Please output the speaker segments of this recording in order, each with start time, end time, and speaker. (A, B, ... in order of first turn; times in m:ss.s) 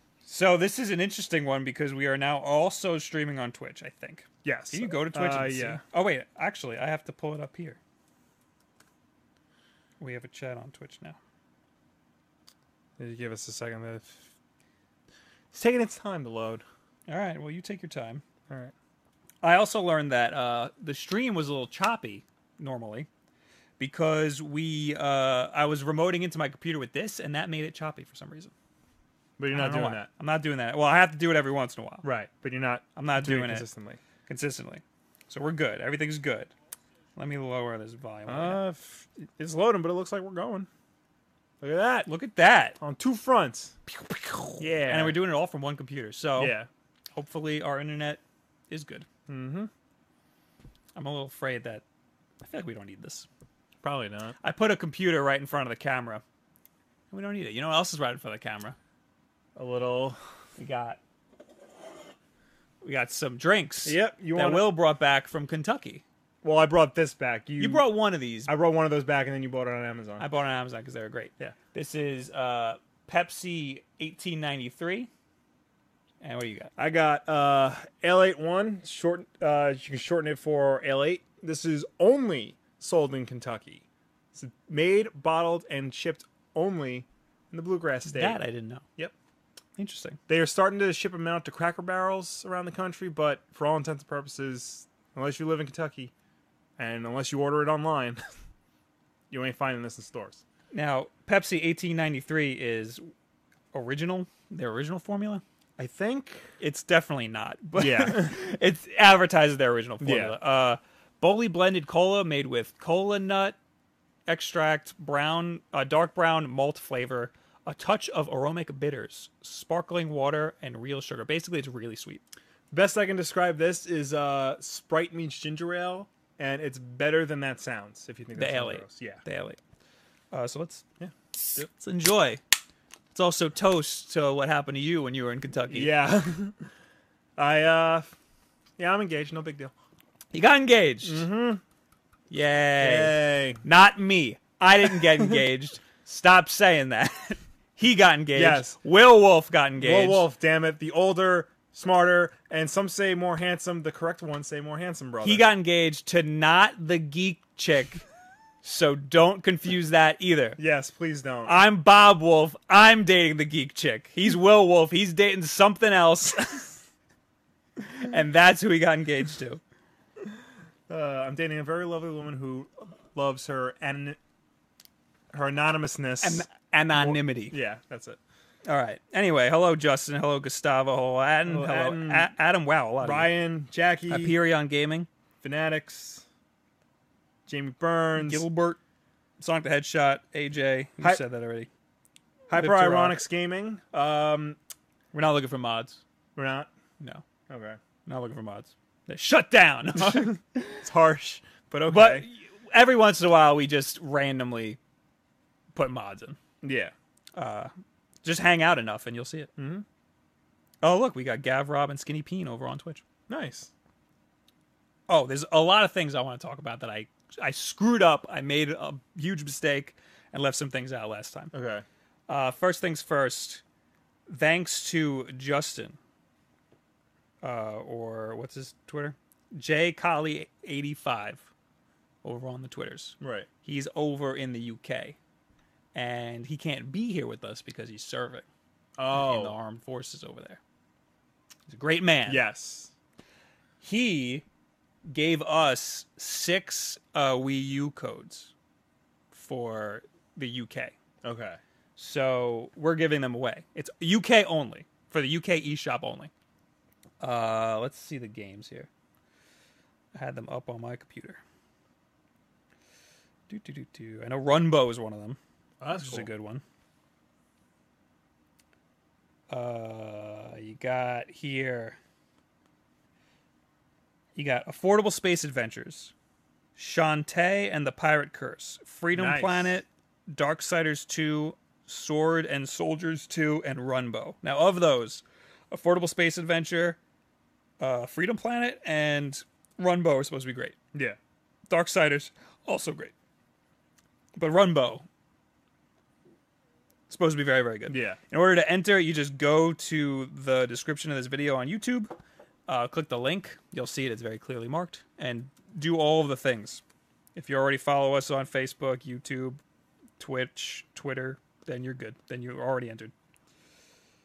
0:00.2-0:07.8 A
0:04.4-0:05.8 B
0:10.0-0:11.2 A
0:13.0-0:14.2 B
0:15.5-0:16.6 B
0:17.1-0:18.2 A
0:18.5-0:18.7 B
0:19.4-0:23.1 A
0:23.8-0:28.5 A
0:29.4-0:30.1 B
0:29.5-0:32.1 A
0:32.0-0:34.0 B
0:33.0-0:33.7 A
0:34.2-0:36.5 A
0:37.2-0:38.6 A
0:38.3-0:40.7 B
0:41.6-0:42.1 B
0:42.0-0:42.8 A
0:42.8-0:43.8 B
0:43.9-0:46.5 A
0:44.6-0:45.2 B
0:46.4-0:46.7 B
0:47.1-0:49.0 A
0:49.3-0:49.7 B
0:50.9-0:51.8 A
0:52.4-0:53.3 A
0:53.8-0:54.4 B
0:54.4-0:56.2 A
0:57.1-0:58.8 A
0:59.6-1:00.2 B
1:00.6-1:01.0 A
1:02.8-1:06.0 A
1:03.8-1:04.7 B
1:06.4-1:07.8 B
1:07.6-1:08.5 A
1:08.4-1:10.3 B
1:10.2-1:15.1 A
1:16.2-1:16.7 A
1:16.8-1:28.4 B
1:28.0-1:28.8 A
1:29.8-1:30.2 A
1:30.3-1:36.1 B
1:36.8-1:38.2 B
1:39.3-1:40.4 B
1:40.7-1:43.1 A
1:43.7-1:45.4 A
1:45.8-1:46.5 B
1:46.6-1:53.6 A
1:47.8-1:48.4 B
1:50.0-1:50.4 B
1:54.3-2:02.2 A
2:02.7-2:09.2 B
2:08.4-2:09.6 A
2:10.3-2:10.8 A
2:11.0-2:11.7 B
2:11.4-2:12.4 A
2:13.1-2:15.9 A
2:15.7-2:16.7 B
2:17.4-2:18.2 B
2:18.8-2:19.7 B
2:20.3-2:21.3 A
2:21.0-2:21.6 B
2:22.3-2:30.2 A
2:22.8-2:23.6 B
2:28.3-2:28.8 B
2:29.8-2:35.4 B
2:35.2-2:38.0 A
2:38.6-2:40.6 A
2:40.6-2:41.5 B
2:41.4-2:46.8 A
2:47.8-2:49.6 A
2:50.9-2:54.2 B
2:55.3-2:56.5 B
2:56.2-2:57.6 A
2:57.0-2:58.2 B
2:58.6-3:03.3 A
3:01.5-3:02.3 B
3:03.0-3:04.3 B
3:04.1-3:05.1 A
3:05.4-3:06.2 B
3:07.5-3:08.4 B
3:08.2-3:08.8 A
3:09.4-3:11.7 A
3:12.5-3:14.6 B
3:12.5-3:13.2 A
3:15.1-3:16.0 A
3:16.4-3:16.7 B
3:17.5-3:17.8 B
3:18.0-3:20.8 A
3:20.0-3:22.3 B
3:21.8-3:24.8 A
3:25.7-3:26.4 A
3:26.6-3:26.9 B
3:27.3-3:27.7 A
3:28.2-3:29.5 A
3:29.6-3:29.8 B
3:30.8-3:33.0 A
3:33.3-3:33.7 B
3:35.1-3:41.5 A
3:41.5-3:41.8 B
3:42.3-3:43.6 A
3:44.3-3:46.0 A
3:47.4-3:51.5 A
3:52.2-3:55.2 A
3:53.2-3:53.5 B
3:55.9-3:58.4 A
3:59.0-3:59.6 B
3:59.1-4:00.6 A
4:01.7-4:02.4 A
4:02.3-4:02.9 B
4:03.8-4:04.4 A
4:05.0-4:08.5 A
4:09.3-4:11.0 A
4:11.2-4:11.6 B
4:12.0-4:16.3 A
4:17.2-4:18.9 A
4:20.1-4:21.4 A
4:23.5-4:25.4 A
4:25.8-4:26.3 B
4:25.9-4:26.6 A
4:29.5-4:32.0 A
4:34.4-4:36.1 A
4:36.8-4:47.0 A
4:39.1-4:39.8 B
4:47.8-4:50.8 A
4:51.7-4:53.1 A
4:54.4-4:55.0 A
4:57.1-5:02.2 A
4:57.9-4:58.2 B
5:02.7-5:06.8 A
5:07.4-5:09.6 A
5:10.2-5:13.1 A